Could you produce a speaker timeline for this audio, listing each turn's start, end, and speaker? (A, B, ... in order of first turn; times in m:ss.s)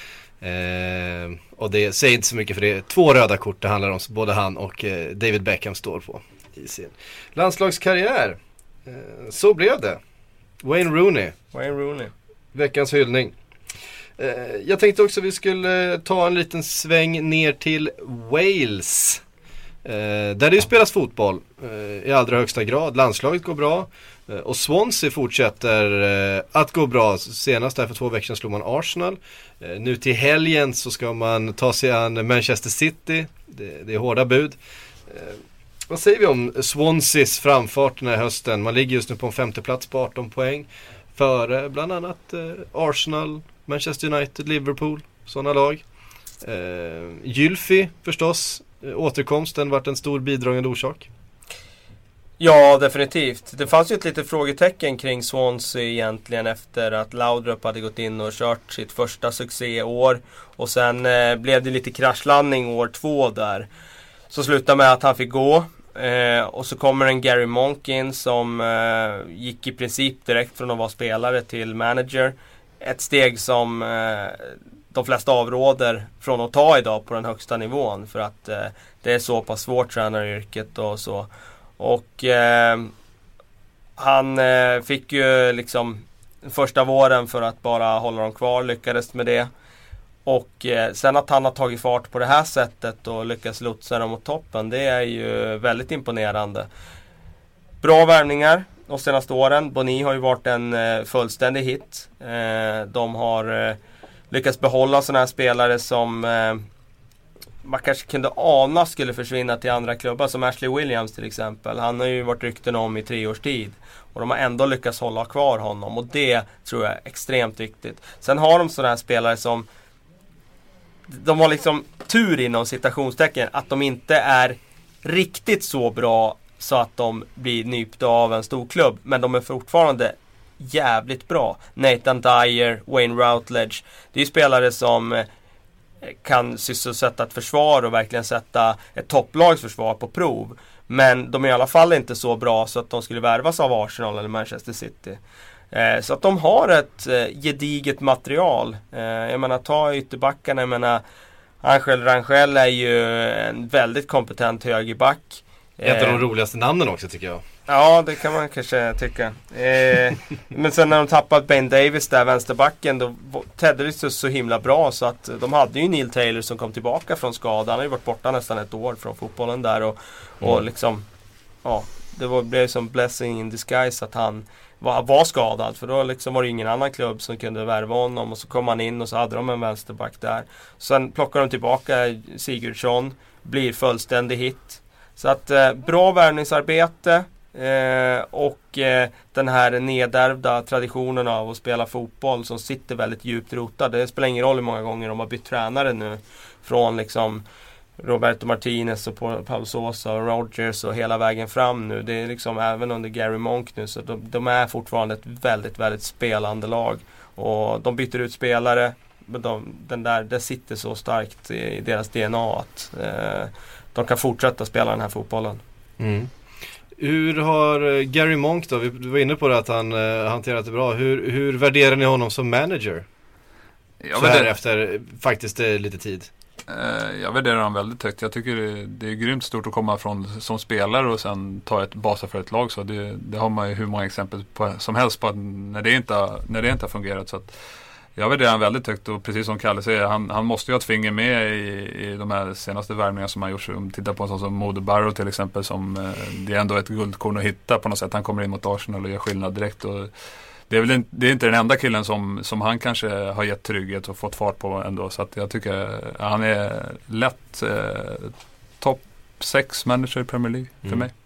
0:00.4-0:10.0 A
0:10.6-0:11.4 A
0:11.5-0:12.1 B
0:12.5-0:13.4 A
0:14.2-0:19.2 A
0:19.8-0:45.8 A
0:46.4-0:51.1 A
0:52.4-1:03.7 B
1:04.3-1:22.9 B
1:24.0-1:29.5 B
1:30.3-1:36.7 B
1:37.8-1:43.8 B
1:44.3-1:46.7 B
1:47.6-1:59.7 B
2:01.1-2:15.3 B
2:16.0-2:25.2 B
2:25.7-2:31.0 B
2:31.6-2:36.2 B
2:35.8-2:37.4 A
2:37.7-2:51.1 B
2:51.6-3:17.4 B
3:18.0-3:35.6 B
3:36.0-3:36.3 A
3:37.0-3:43.1 A
3:44.0-3:44.5 C
3:44.2-3:46.3 A
3:46.7-3:57.5 C
3:58.2-4:10.1 C
4:10.7-4:21.1 C